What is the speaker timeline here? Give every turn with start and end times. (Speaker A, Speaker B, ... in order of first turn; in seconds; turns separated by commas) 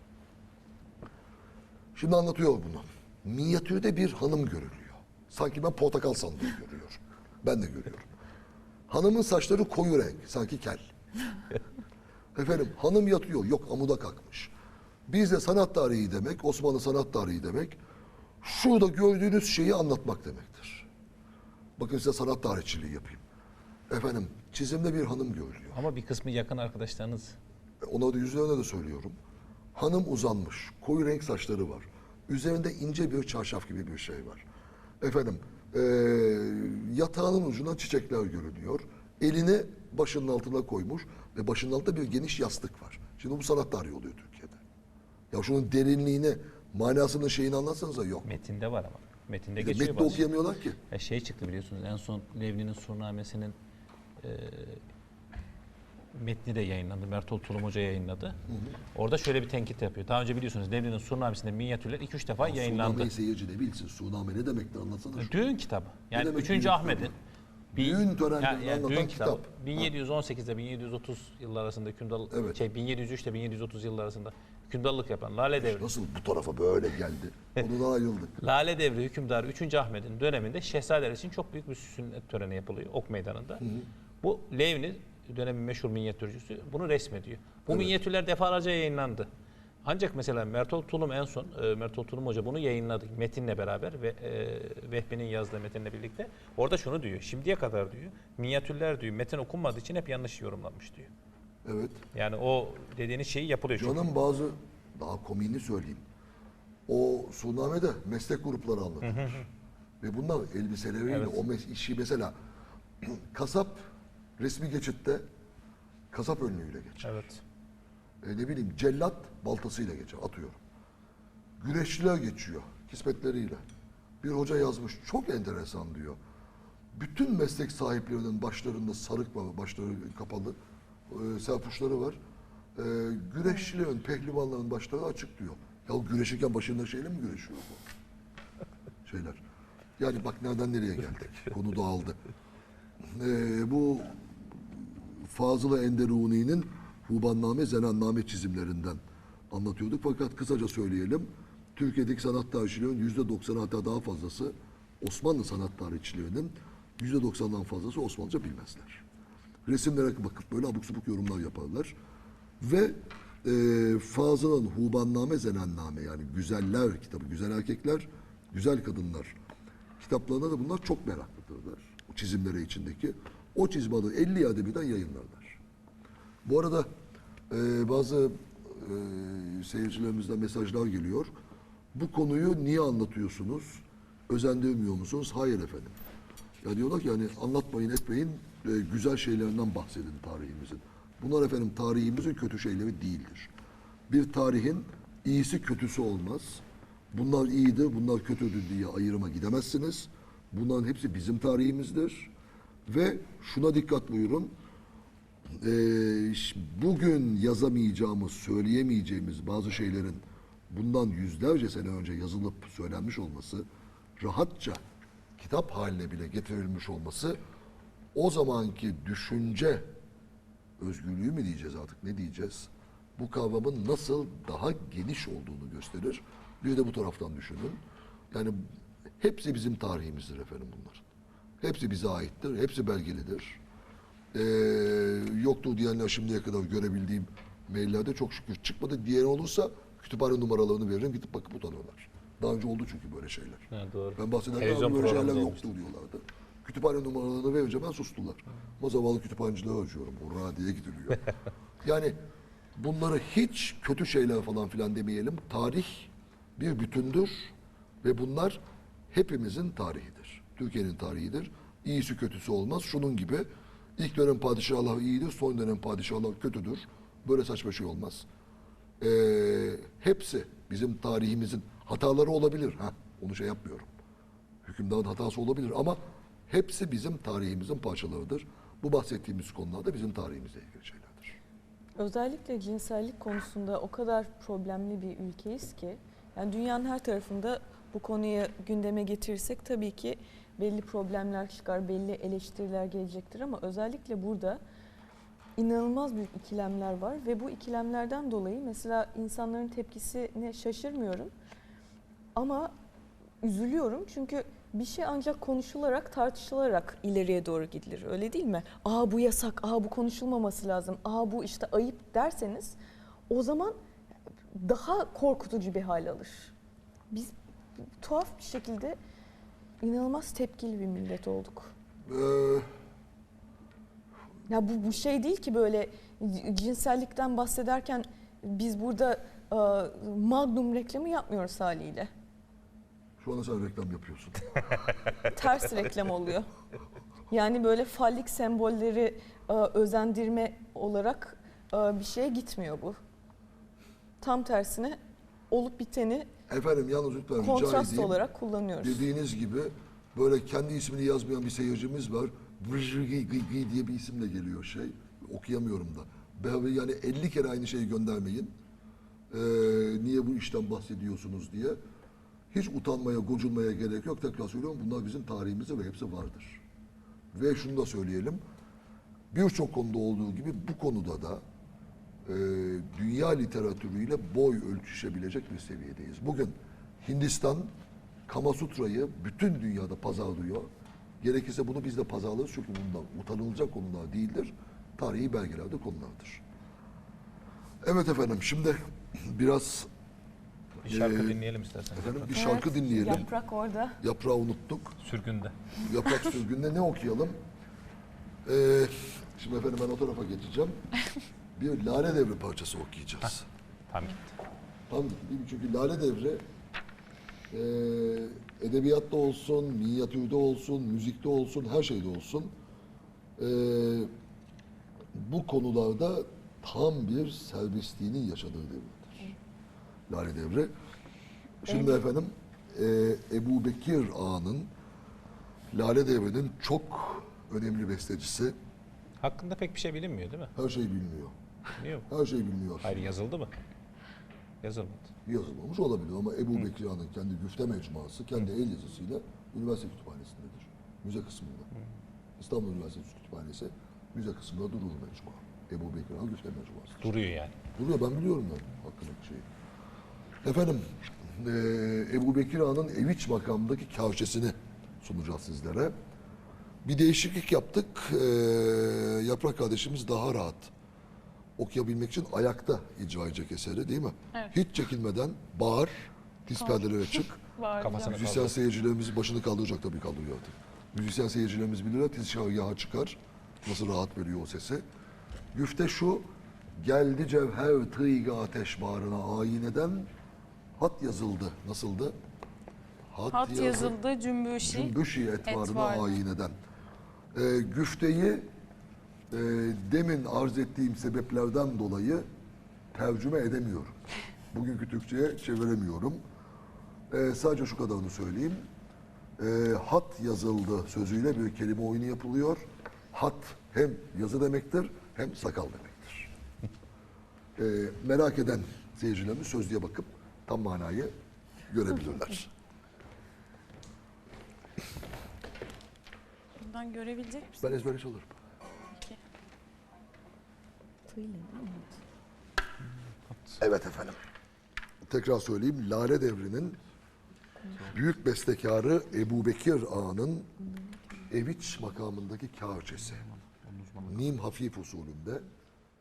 Speaker A: 1.9-8.1, Speaker A: 8.9-10.9, Speaker A: 12.3-14.5, Speaker A: 15.1-17.8, Speaker A: 18.4-20.9, Speaker A: 21.8-23.2, Speaker A: 23.9-25.8, Speaker B: 25.7-27.4, Speaker A: 27.8-29.2, Speaker A: 29.7-34.4, Speaker A: 35.0-44.6, Speaker A: 45.3-48.3, Speaker B: 48.2-50.3, Speaker A: 49.6-50.8, Speaker B: 50.9-53.6, Speaker B: 54.2-54.8, Speaker B: 56.1-58.4, Speaker A: 58.5-58.8, Speaker B: 58.9-63.1, Speaker A: 62.4-65.3, Speaker B: 65.2-67.1, Speaker A: 66.1-67.1, Speaker A: 67.7-69.9, Speaker B: 67.7-75.9, Speaker A: 72.3-72.6, Speaker A: 75.6-78.4, Speaker B: 78.4-83.7, Speaker B: 84.2-89.3, Speaker B: 89.8-101.1, Speaker A: 101.6-102.0, Speaker B: 102.1-104.1, Speaker A: 103.7-106.0, Speaker A: 106.9-109.4, Speaker B: 109.0-109.5, Speaker A: 110.0-112.3, Speaker B: 111.1-111.4, Speaker A: 113.0-113.8, Speaker A: 114.4-115.2, Speaker A: 116.1-117.2, Speaker B: 117.0-117.4, Speaker A: 118.2-120.6, Speaker A: 121.6-123.6, Speaker A: 124.2-126.2, Speaker A: 126.9-130.6, Speaker A: 131.1-132.2, Speaker A: 132.8-137.8, Speaker A: 139.0-139.4, Speaker A: 140.0-142.2, Speaker A: 143.1-149.0, Speaker A: 149.5-159.0, Speaker A: 159.7-161.9, Speaker A: 162.6-169.3, Speaker A: 170.0-175.6, Speaker A: 176.4-176.9, Speaker A: 177.5-181.3, Speaker A: 181.9-186.0, Speaker A: 186.6-193.5, Speaker A: 194.1-202.3, Speaker A: 202.9-204.5, Speaker A: 205.6-213.7, Speaker A: 214.2-214.8, Speaker A: 215.4-217.4, Speaker A: 218.1-219.9, Speaker A: 220.8-227.8, Speaker A: 228.3-228.6, Speaker A: 229.2-231.1, Speaker A: 231.6-233.6, Speaker A: 234.3-251.2, Speaker B: 243.7-245.7, Speaker A: 251.8-252.2, Speaker A: 252.8-257.5, Speaker A: 258.0-258.6, Speaker A: 259.1-268.3, Speaker A: 269.0-273.9, Speaker A: 274.6-281.4, Speaker C: 282.0-294.6, Speaker C: 295.6-301.3, Speaker C: 302.3-302.7, Speaker C: 303.4-312.8, Speaker C: 313.3-313.8, Speaker C: 314.5-316.5, Speaker C: 317.1-319.0, Speaker C: 319.8-321.7, Speaker A: 322.1-322.7, Speaker C: 324.5-332.1, Speaker A: 333.2-334.9, Speaker C: 335.2-336.5, Speaker C: 337.3-343.0, Speaker C: 344.2-345.0, Speaker C: 345.5-346.3, Speaker A: 346.5-348.2, Speaker C: 347.4-349.0, Speaker A: 348.8-358.5, Speaker A: 359.3-361.8, Speaker A: 362.5-366.6, Speaker A: 367.3-368.4, Speaker A: 369.3-371.4, Speaker A: 372.2-377.7, Speaker A: 378.3-380.7, Speaker A: 381.2-386.4, Speaker A: 387.8-389.9, Speaker A: 390.8-391.4, Speaker B: 390.8-392.6, Speaker A: 391.9-393.3, Speaker C: 392.3-394.0, Speaker A: 394.0-395.0, Speaker B: 395.0-395.6, Speaker A: 395.8-397.4, Speaker A: 398.4-400.7, Speaker A: 401.6-403.5, Speaker B: 403.9-404.3, Speaker A: 404.9-406.4, Speaker A: 407.5-412.5, Speaker A: 413.4-414.1, Speaker A: 415.1-419.3, Speaker A: 420.1-420.7, Speaker A: 421.6-424.7, Speaker A: 425.7-428.6, Speaker B: 429.2-430.5, Speaker A: 430.5-431.3, Speaker B: 431.8-432.1, Speaker A: 432.1-433.0, Speaker B: 432.8-433.5, Speaker B: 434.6-435.1, Speaker A: 435.2-441.7, Speaker A: 442.4-447.1, Speaker B: 447.0-447.6, Speaker A: 447.7-449.4, Speaker A: 450.4-455.9, Speaker A: 456.8-460.7, Speaker A: 461.6-467.4, Speaker D: 466.6-468.2, Speaker B: 467.8-468.5, Speaker A: 468.1-474.8, Speaker A: 475.5-480.1, Speaker A: 480.8-482.1, Speaker A: 483.1-483.9, Speaker D: 483.3-486.1, Speaker A: 484.6-486.6, Speaker A: 487.3-488.5, Speaker A: 489.3-492.2, Speaker A: 492.9-494.0, Speaker A: 494.5-496.2, Speaker A: 497.1-498.6, Speaker A: 499.4-506.3, Speaker A: 507.6-511.1, Speaker A: 511.7-512.5, Speaker D: 516.6-517.8, Speaker A: 517.6-518.3, Speaker C: 521.1-522.0, Speaker B: 523.3-523.6, Speaker A: 523.6-524.2, Speaker A: 525.0-526.8, Speaker A: 527.9-530.5, Speaker C: 530.7-531.2, Speaker A: 531.3-533.2, Speaker B: 533.0-534.4, Speaker A: 534.0-535.4